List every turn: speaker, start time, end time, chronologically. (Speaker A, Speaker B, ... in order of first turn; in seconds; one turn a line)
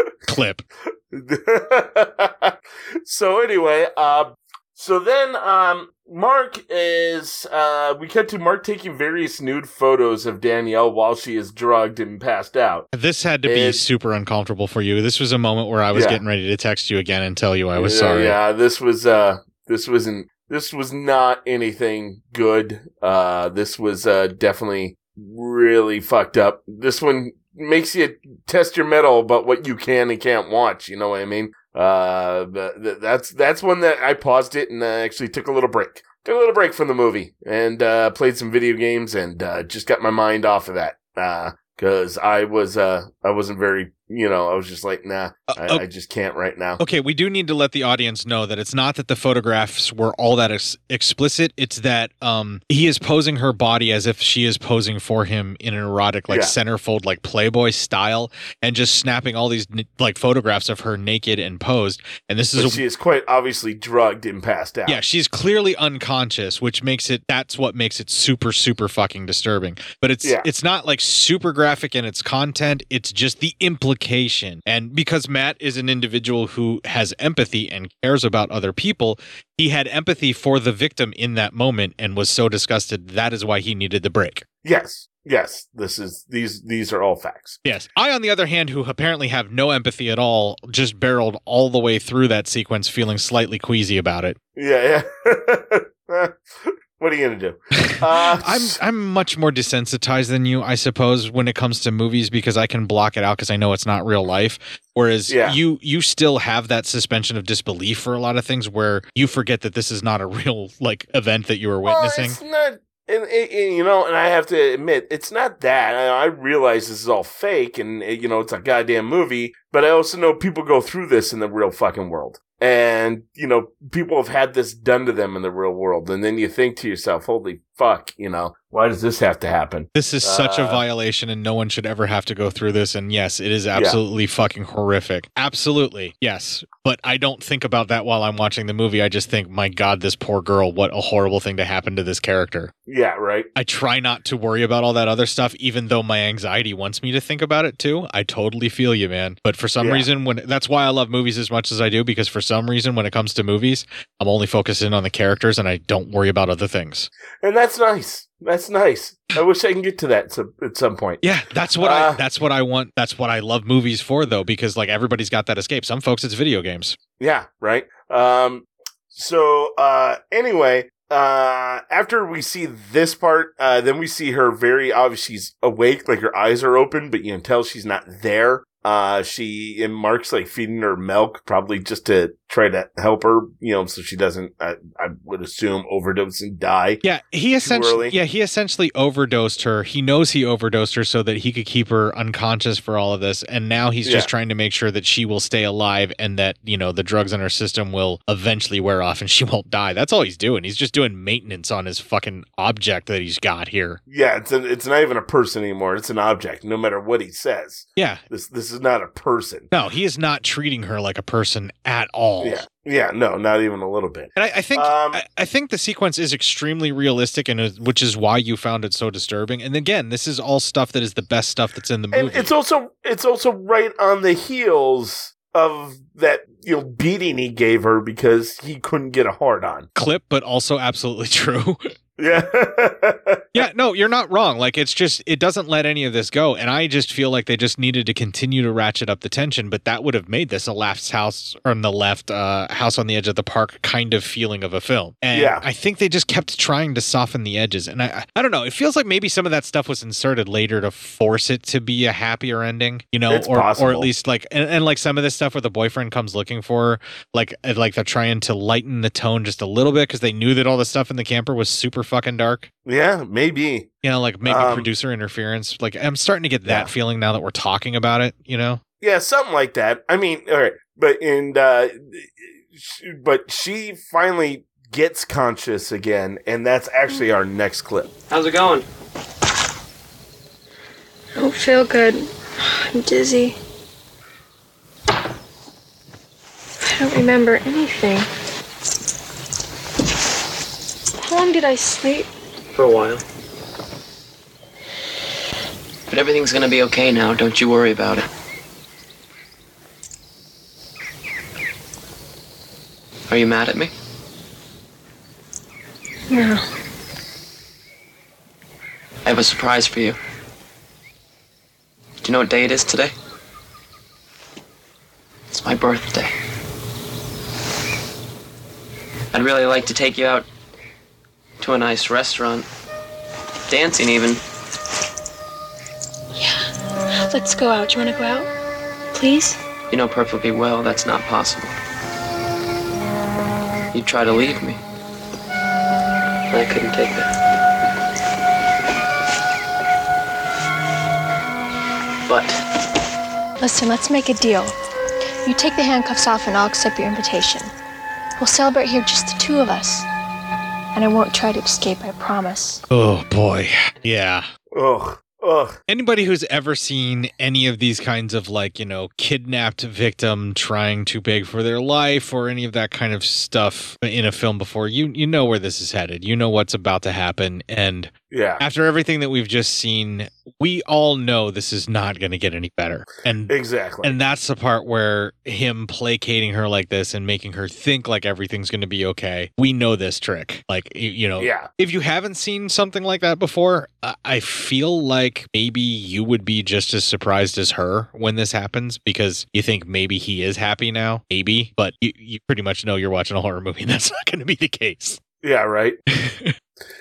Speaker A: 0.3-0.7
Speaker B: 1.1-2.5
Speaker B: 3.0-12.9
Speaker A: 12.9-18.4
Speaker B: 13.5-13.8
Speaker B: 15.9-16.2
Speaker B: 17.8-46.8
Speaker A: 45.5-45.8
Speaker A: 46.8-62.8
Speaker B: 56.3-56.5
Speaker B: 62.6-65.0
Speaker A: 64.9-84.5
Speaker B: 84.6-87.6
Speaker A: 87.7-94.4
Speaker B: 94.6-98.8
Speaker A: 97.8-112.4
Speaker B: 105.3-105.6
Speaker B: 111.9-130.8
Speaker A: 129.9-142.7
Speaker B: 133.7-134.0
Speaker B: 142.9-143.5
Speaker A: 143.6-157.1
Speaker B: 149.8-150.1
Speaker B: 157.4-161.2
Speaker A: 161.2-167.0
Speaker B: 161.8-162.2
Speaker B: 167.2-187.0
Speaker A: 187.0-204.0
Speaker B: 187.7-188.2
Speaker B: 194.1-194.3
Speaker B: 204.1-209.7
Speaker A: 208.0-208.2
Speaker A: 209.7-212.6
Speaker B: 212.4-215.2
Speaker A: 214.4-222.5
Speaker B: 222.1-229.9
Speaker A: 230.0-231.9
Speaker B: 232.2-233.6
Speaker A: 233.5-262.7
Speaker B: 245.3-245.6
Speaker B: 253.3-254.1
Speaker B: 262.9-263.9
Speaker A: 264.0-268.8
Speaker B: 264.4-264.9
Speaker B: 269.0-278.1
Speaker C: 278.3-278.9
Speaker D: 281.4-283.6
Speaker D: 286.8-288.3
Speaker D: 291.2-292.3
Speaker C: 292.8-293.2
Speaker C: 296.1-298.3
Speaker C: 303.3-303.9
Speaker D: 306.3-306.6
Speaker C: 309.2-310.2
Speaker C: 312.2-313.1
Speaker C: 315.5-316.3
Speaker C: 319.3-320.5
Speaker C: 321.6-322.7
Speaker C: 323.7-324.4
Speaker D: 326.4-326.7
Speaker D: 327.3-328.5
Speaker D: 329.1-329.6
Speaker C: 329.9-331.7
Speaker C: 333.9-334.8
Speaker C: 336.5-337.3
Speaker C: 342.3-342.6
Speaker D: 343.6-344.8
Speaker D: 345.4-347.7
Speaker D: 348.4-350.1
Speaker D: 350.9-352.8
Speaker A: 352.9-354.4
Speaker B: 354.7-355.8
Speaker A: 355.9-395.2
Speaker B: 368.3-368.6
Speaker B: 373.5-374.2
Speaker B: 381.4-381.7
Speaker B: 395.4-396.0
Speaker A: 396.1-396.5